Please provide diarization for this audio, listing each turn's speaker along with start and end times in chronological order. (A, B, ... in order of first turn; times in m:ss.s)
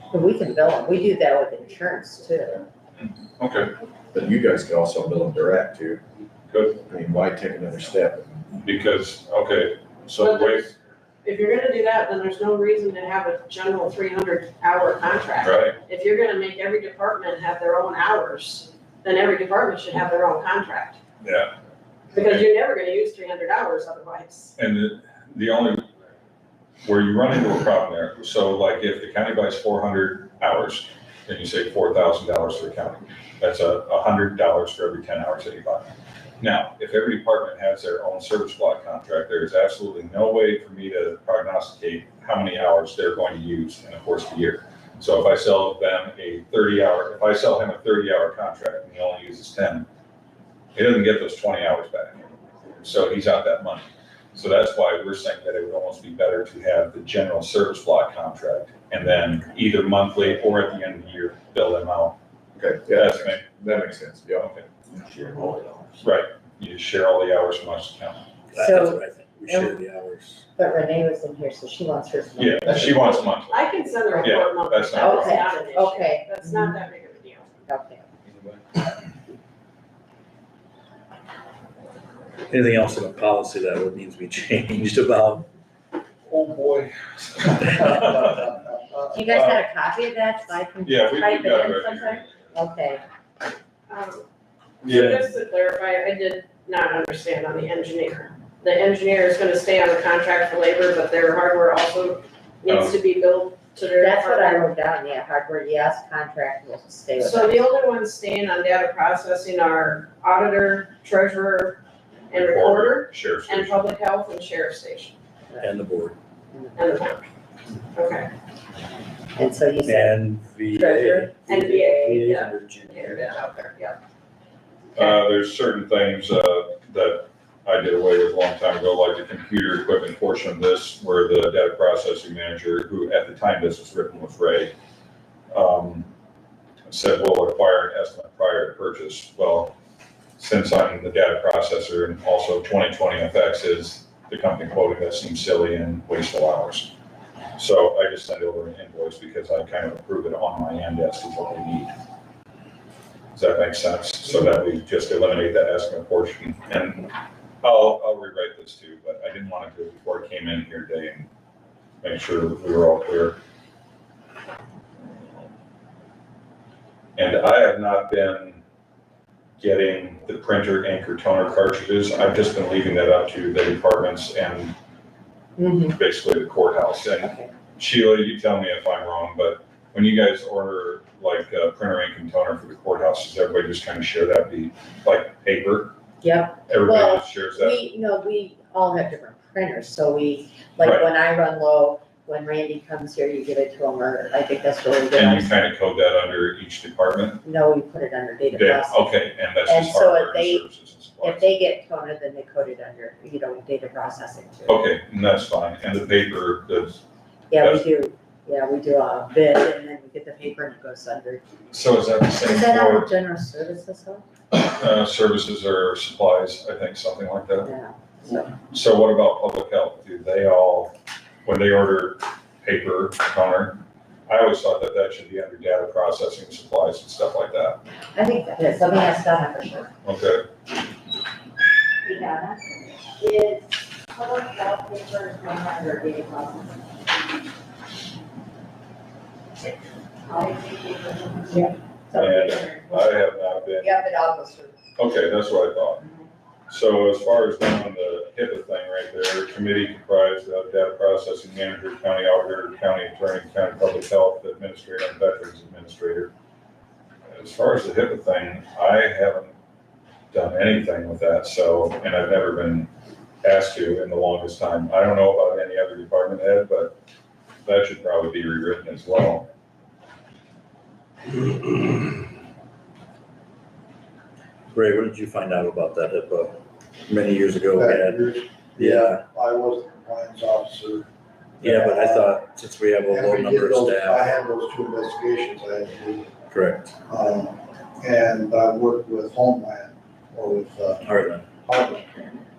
0:00.1-0:02.6 A
0:03.4-0:03.7 B
0:04.1-0:06.0 C
0:06.5-0:06.8 B
0:06.8-0:08.4 C
0:08.6-0:10.7 B
0:10.2-0:21.0 D
0:15.4-0:15.8 B
0:21.2-0:21.5 B
0:22.1-0:24.5 D
0:22.2-0:22.4 B
0:24.6-0:25.8 B
0:26.8-0:49.8 B
0:50.7-0:52.2 B
0:52.8-1:02.2 B
1:02.6-1:05.9 C
1:02.9-1:03.4 B
1:04.4-1:04.7 B
1:06.0-1:08.2 B
1:08.5-1:10.4 E
1:08.6-1:09.8 A
1:10.5-1:13.2 A
1:12.4-1:13.6 B
1:13.2-1:17.5 D
1:14.1-1:14.4 A
1:14.2-1:15.4 B
1:14.9-1:16.7 A
1:17.7-1:18.0 A
1:22.5-1:25.5 E
1:26.3-1:28.5 B
1:29.1-1:33.0 A
1:29.3-1:29.6 B
1:30.8-1:32.3 B
1:33.9-1:34.2 D
1:34.8-1:35.2 B
1:34.8-1:44.7 D
1:34.9-1:35.2 E
1:42.6-1:42.9 B
1:44.0-1:47.6 A
1:47.2-1:55.2 D
1:52.3-1:53.8 B
1:55.6-1:56.2 E
1:56.5-1:56.9 A
1:56.8-1:57.3 D
1:57.9-1:58.3 D
1:59.3-2:00.2 A
1:59.8-2:03.2 E
2:00.7-2:01.3 A
2:01.5-2:04.0 D
2:04.9-2:14.7 B
2:15.5-2:16.1 B
2:16.9-2:19.8 B
2:20.4-2:26.9 B
2:27.6-2:31.9 B
2:33.3-2:41.3 B
2:42.0-2:43.4 B
2:47.2-2:48.6 B
2:49.6-2:54.7 B
2:55.6-2:56.0 A
2:55.9-3:05.9 B
2:57.2-2:57.5 A
3:06.2-3:15.5 A
3:06.7-3:07.8 B
3:10.8-3:11.1 B
3:15.1-3:17.4 B
3:17.4-3:19.0 A
3:18.5-3:21.5 B
3:19.7-3:20.6 A
3:21.2-3:24.8 A
3:24.7-3:27.0 B
3:27.5-3:31.4 A
3:27.6-3:27.8 B
3:31.7-3:33.1 B
3:32.4-3:34.2 A
3:34.5-3:37.7 B
3:37.6-3:38.5 A
3:38.5-3:40.9 B
3:41.4-3:47.8 B
3:48.1-3:49.9 A
3:50.0-3:50.4 B
3:52.0-3:56.9 A
4:00.3-4:03.3 A
4:02.1-4:04.0 B
4:03.8-4:04.8 A
4:05.0-4:06.1 B
4:06.7-4:16.3 B
4:17.3-4:19.5 B
4:20.3-4:22.9 B
4:23.4-4:26.9 B
4:27.6-4:29.5 B
4:34.7-4:39.2 E
4:37.7-4:41.1 F
4:41.6-4:44.3 E
4:41.6-4:42.4 F
4:43.1-4:46.3 F
4:46.5-4:46.9 E
4:47.1-4:51.0 F
4:51.0-4:51.4 E
4:51.6-4:52.2 F